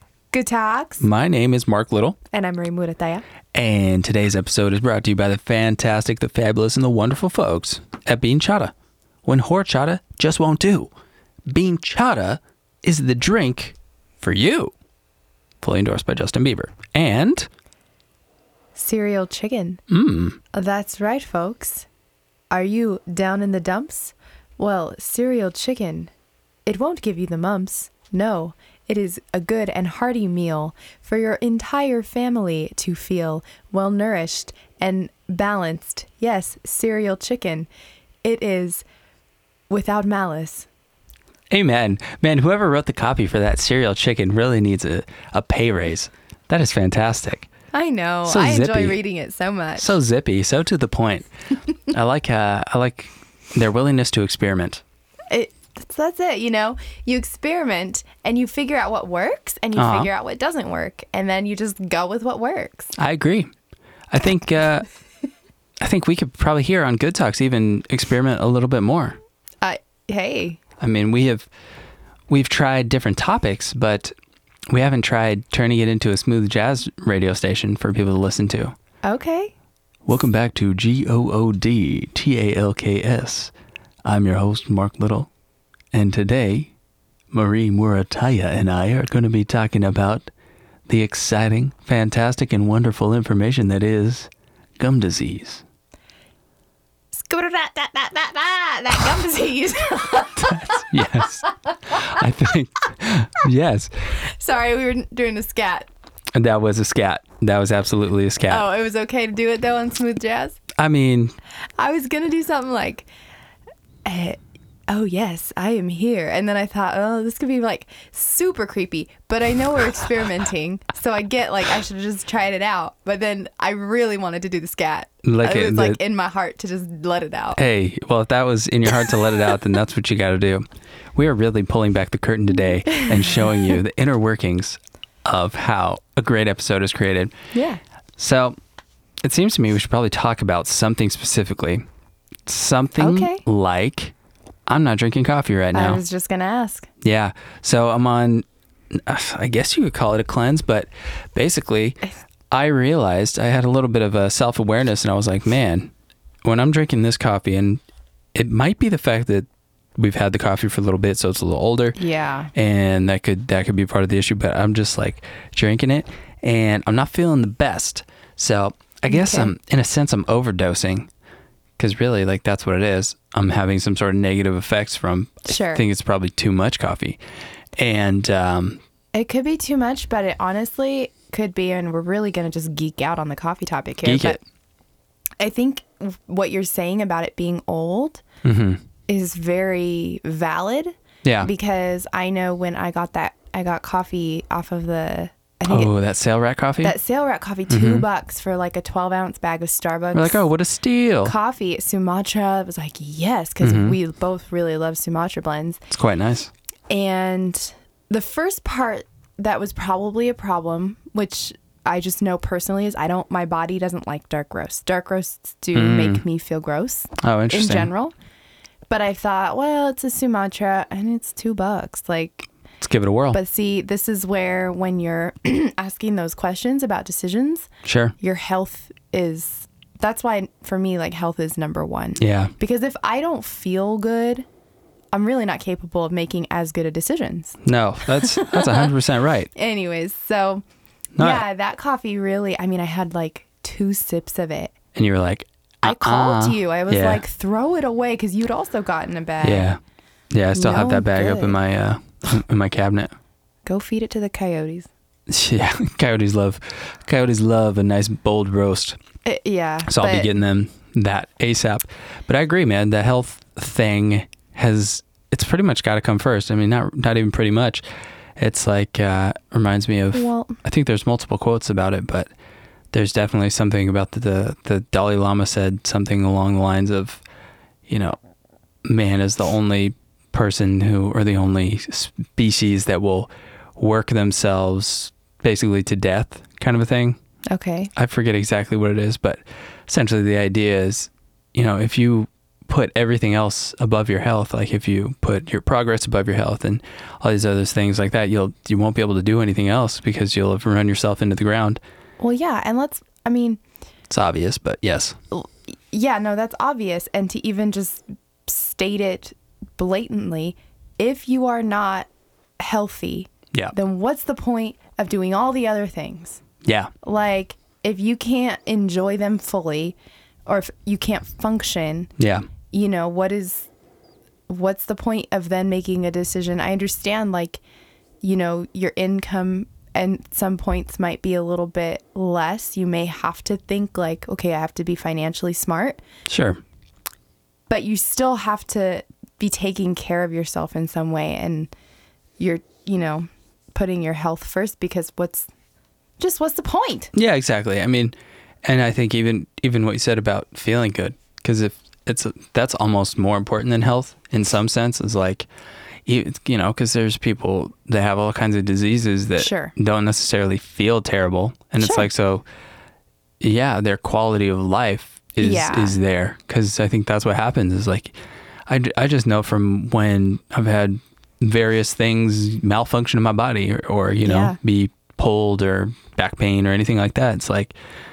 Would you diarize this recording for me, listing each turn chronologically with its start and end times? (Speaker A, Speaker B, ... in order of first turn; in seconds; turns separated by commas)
Speaker A: 0.3-1.1, Speaker B: 1.0-2.2, Speaker A: 2.3-3.2, Speaker B: 3.5-8.7, Speaker B: 9.2-10.9, Speaker B: 11.5-14.7, Speaker B: 15.6-17.5, Speaker A: 18.8-19.8, Speaker B: 19.9-20.4, Speaker A: 20.5-21.9, Speaker A: 22.5-26.1, Speaker A: 26.7-37.7, Speaker A: 38.2-38.8, Speaker A: 39.7-40.7, Speaker B: 41.5-47.5, Speaker A: 47.7-49.9, Speaker B: 48.3-49.0, Speaker B: 49.8-51.3, Speaker B: 51.9-54.8, Speaker A: 55.3-62.9, Speaker B: 59.8-60.1, Speaker B: 63.0-63.5, Speaker B: 64.1-64.9, Speaker B: 65.8-69.2, Speaker A: 69.6-70.6, Speaker B: 70.8-71.5, Speaker B: 72.3-74.1, Speaker B: 74.7-78.7, Speaker A: 79.0-79.5, Speaker B: 80.1-83.5, Speaker B: 84.0-85.3, Speaker B: 85.9-86.7, Speaker B: 87.3-90.3, Speaker B: 90.9-95.6, Speaker A: 97.1-102.0, Speaker B: 100.3-103.9, Speaker A: 104.2-105.9, Speaker B: 106.3-108.7, Speaker A: 108.5-110.6, Speaker B: 110.8-111.3, Speaker A: 111.8-113.1, Speaker A: 114.0-127.6, Speaker B: 125.2-126.0, Speaker B: 127.5-137.3, Speaker A: 129.1-129.6, Speaker A: 132.9-133.8, Speaker A: 137.5-137.8, Speaker B: 138.2-138.6, Speaker B: 139.2-141.8, Speaker B: 142.5-144.1, Speaker A: 143.0-143.4, Speaker B: 144.7-146.0, Speaker A: 145.7-146.9, Speaker B: 147.0-155.9, Speaker B: 156.4-157.8, Speaker B: 158.3-162.0, Speaker A: 162.0-162.5, Speaker B: 162.5-171.1, Speaker A: 169.1-169.5, Speaker B: 171.8-177.2, Speaker A: 175.5-175.8, Speaker B: 177.8-178.8, Speaker A: 179.1-184.4, Speaker B: 184.1-184.4, Speaker A: 185.4-188.2, Speaker B: 188.4-188.8, Speaker A: 189.1-195.9, Speaker B: 191.2-191.5, Speaker B: 195.7-196.9, Speaker A: 196.8-200.4, Speaker B: 197.7-198.1, Speaker B: 200.1-201.3, Speaker A: 201.2-205.8, Speaker B: 203.6-204.0, Speaker B: 205.9-206.5, Speaker A: 206.9-218.1, Speaker B: 215.7-216.2, Speaker B: 217.2-217.9, Speaker A: 218.9-222.5, Speaker B: 222.8-223.4, Speaker A: 223.3-227.7, Speaker B: 227.8-228.1, Speaker A: 228.2-234.5, Speaker B: 232.2-232.5, Speaker A: 235.1-238.9, Speaker B: 237.6-239.5, Speaker A: 239.6-240.7, Speaker B: 241.2-241.4, Speaker A: 241.2-244.7, Speaker B: 244.9-247.2, Speaker A: 245.8-249.7, Speaker B: 249.4-249.8, Speaker B: 250.3-253.1, Speaker A: 250.6-251.6, Speaker A: 253.7-254.9, Speaker B: 255.3-259.0, Speaker A: 259.2-260.3, Speaker B: 259.9-267.8, Speaker B: 268.4-272.3, Speaker A: 270.1-270.6, Speaker B: 272.9-277.2, Speaker B: 277.9-278.2, Speaker B: 278.9-287.2, Speaker A: 287.5-287.9, Speaker B: 287.9-301.8, Speaker A: 302.2-303.6, Speaker B: 304.1-305.2, Speaker A: 305.3-312.1, Speaker A: 312.6-316.4, Speaker B: 316.6-316.9, Speaker A: 317.0-322.1, Speaker B: 322.2-322.5, Speaker A: 322.7-323.7, Speaker A: 324.5-327.6, Speaker A: 328.2-336.0, Speaker B: 336.3-336.6, Speaker A: 337.7-341.7, Speaker A: 342.4-345.5, Speaker A: 346.2-347.1, Speaker B: 347.1-355.5, Speaker B: 356.1-362.4, Speaker A: 359.4-359.7, Speaker A: 361.8-362.1, Speaker B: 363.4-368.1, Speaker A: 365.4-366.0, Speaker B: 368.7-377.7, Speaker A: 374.2-374.6